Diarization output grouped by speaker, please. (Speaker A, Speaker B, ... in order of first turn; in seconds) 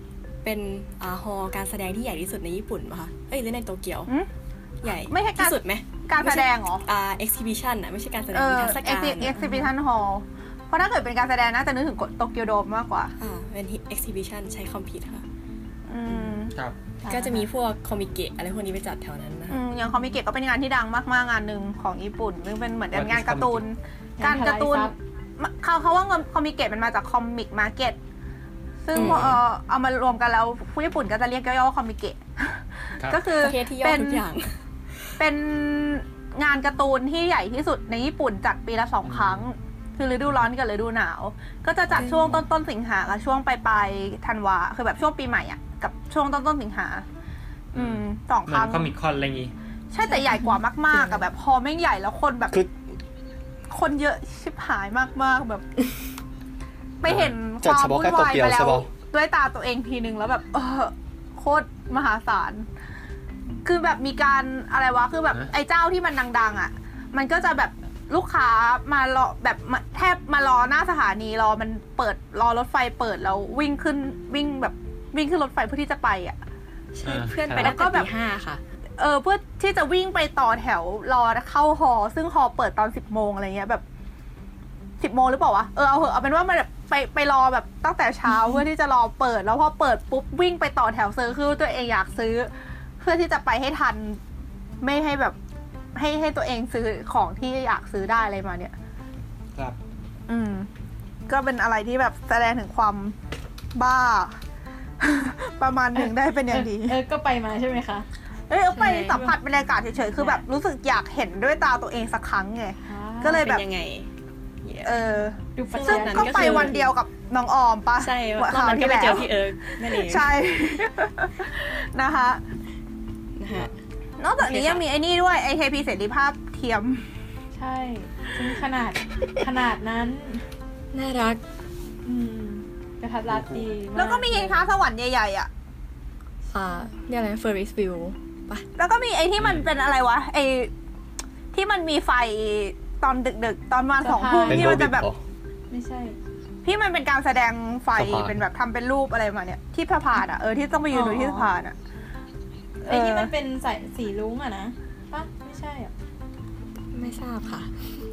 Speaker A: 0.4-4.1, 4.8-9.5, 13.2-15.2, 17.1-19.6, 28.9-29.4, 33.3-34.5, 76.9-78.6, 108.7-109.3, 113.3-114.1, 114.6-115.0, 115.7-116.9, 118.0-120.3, 123.4-123.8, 124.4-124.8, 130.9-131.4, 136.5-138.7, 156.9-157.7
Speaker B: 5.1-6.8, 8.3-13.1, 15.9-16.5, 19.5-28.0, 28.8-34.3, 35.2-47.0, 47.7-48.9, 49.9-52.6, 53.7-55.7, 57.0-62.7, 63.6-76.4, 77.6-78.1, 79.0-83.8, 85.0-94.2, 94.8-95.4, 96.0-98.7, 100.3-100.7, 101.3-103.2, 103.8-104.4, 105.0-107.0, 108.5-113.6, 114.8-122.4, 124.2-127.1, 133.9-135.5, 138.8-140.7, 141.5-145.1, 146.6-151.8, 152.9-153.3
Speaker C: 9.2-9.7, 17.0-17.5, 24.2-24.9, 50.1-51.2, 106.0-108.1, 112.9-113.6, 115.6-116.8, 127.6-130.4, 132.1-134.7, 144.0-144.7, 145.7-146.2, 150.9-151.5, 152.8-155.9
Speaker D: 22.9-23.6, 28.9-29.4, 39.0-39.5, 41.9-42.5, 47.8-49.5, 57.1-57.3, 77.0-77.8, 133.3-133.6, 139.4-139.7
Speaker E: 57.6-58.9, 144.5-145.2, 147.9-148.4